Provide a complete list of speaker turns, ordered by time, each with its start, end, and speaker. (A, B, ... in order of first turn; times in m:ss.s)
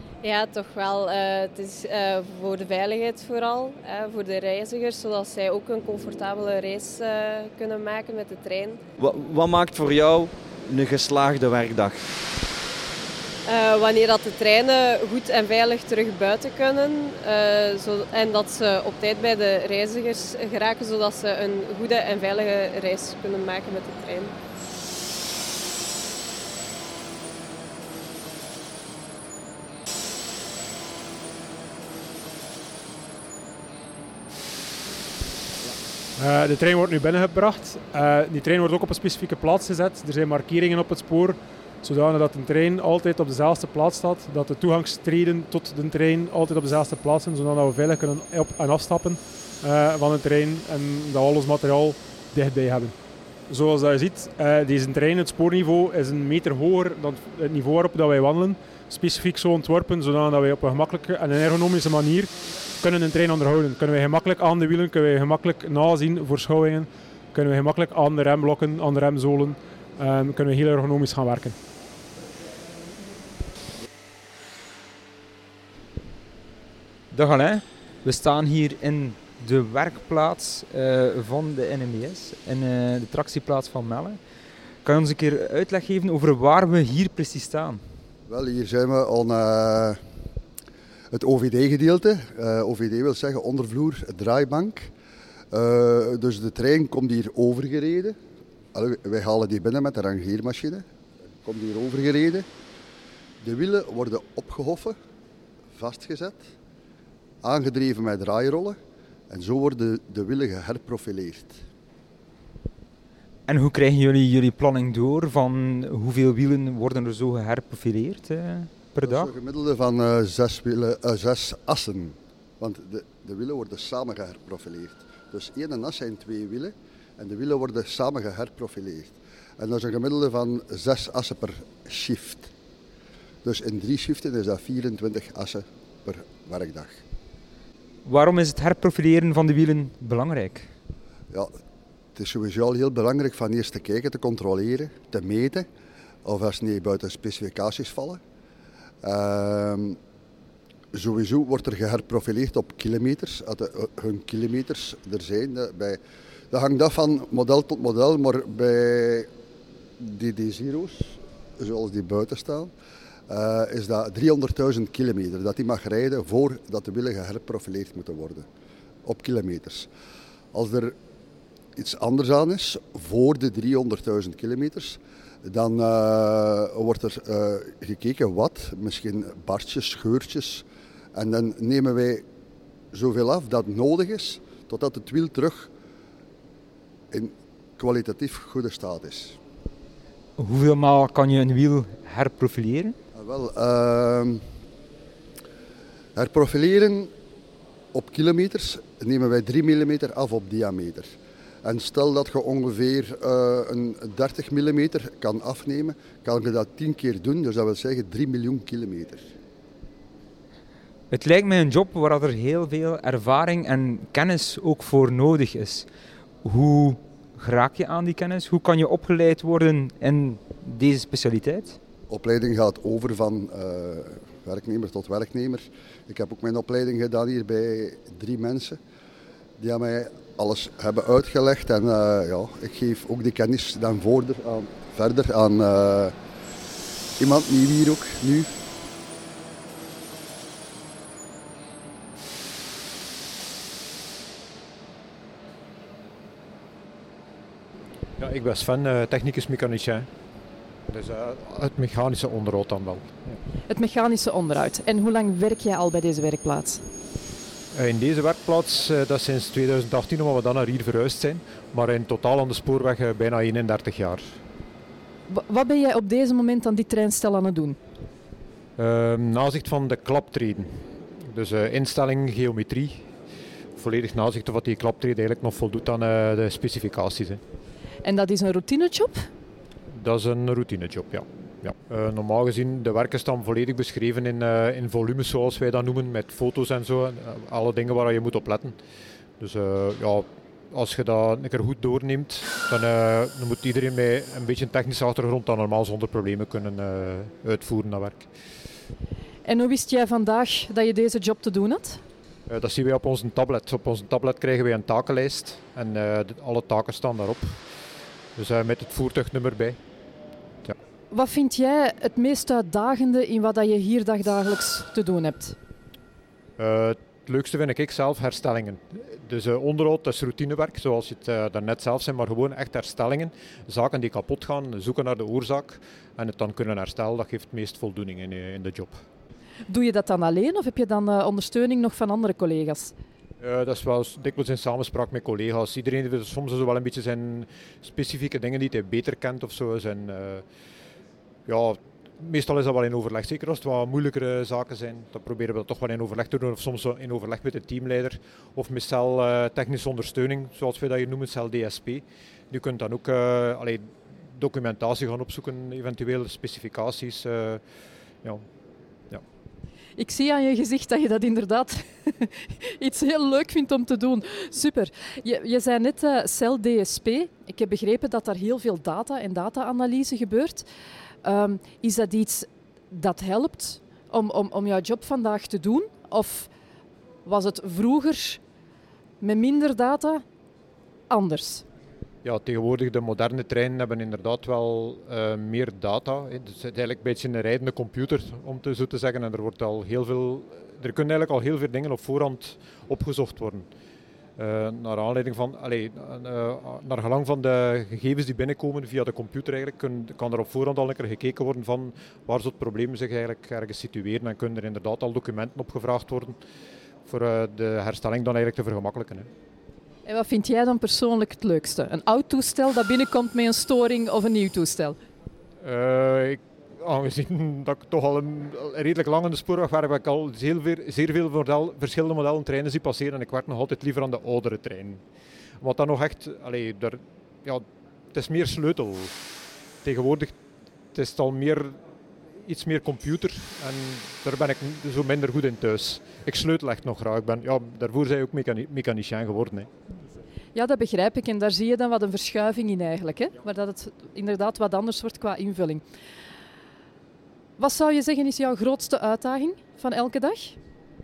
0:00.2-0:08.8 A
0:09.0-0:12.0 B
0:13.4-0:24.3 A
0:36.2-0:52.9 C
0:53.5-1:11.6 C
1:17.1-1:24.2 D
1:24.8-1:27.8 D
1:28.3-1:30.0 E
1:31.1-1:34.9 E
1:35.5-1:38.2 E
1:38.7-1:40.8 E
1:41.4-1:42.5 E
1:43.4-1:45.0 E
1:45.7-1:46.5 E
1:47.4-1:48.8 E
1:49.3-1:51.6 E
1:53.5-1:59.3 D
1:59.0-2:12.5 E
2:13.4-2:17.0 E
2:18.0-2:20.7 D
2:22.2-2:25.7 E
2:26.2-2:28.2 E
2:29.0-2:30.0 E
2:30.9-2:36.0 E
2:36.5-2:39.3 E
2:40.0-2:42.7 E
2:43.3-2:48.4 E
2:49.0-2:49.9 E
2:50.5-2:50.9 E
2:51.8-3:00.6 E
3:01.1-3:02.2 E
3:02.9-3:05.7 E
3:07.1-3:09.4 E
3:10.4-3:12.9 D
3:13.2-3:14.4 E
3:16.2-3:17.1 E
3:17.9-3:21.1 E
3:21.6-3:29.3 E
3:31.1-3:35.8 D
3:36.4-3:41.8 D
3:42.1-3:48.8 E
3:49.6-3:56.1 E
3:57.2-3:58.5 E
4:08.2-4:10.1 F
4:10.9-4:13.4 F
4:13.7-4:16.8 G
4:17.7-4:24.4 F
4:25.3-4:27.8 G
4:28.8-4:33.1 F
4:33.8-4:37.4 F
4:38.0-4:39.3 G
4:39.9-4:48.8 F
4:49.4-4:58.3 F
4:59.4-5:02.0 G
5:02.5-5:07.6 F
5:08.4-5:09.8 F
5:11.1-5:15.6 G
5:16.6-5:29.0 F
5:29.7-5:32.9 G
5:33.4-5:40.4 F
5:41.4-5:57.6 F
6:00.0-6:10.6 G
6:11.2-6:16.5 G
6:17.2-6:18.4 G
6:19.2-6:20.2 G
6:21.1-6:21.6 G
6:22.2-6:33.7 F
6:34.4-6:46.4 F
6:47.1-6:49.3 F
6:50.1-6:55.0 G
6:55.6-7:05.0 F
7:05.6-7:09.1 F
7:09.8-7:10.4 F
7:10.9-7:11.8 F
7:12.4-7:19.7 F
7:20.5-7:25.8 G
7:27.6-7:30.6 G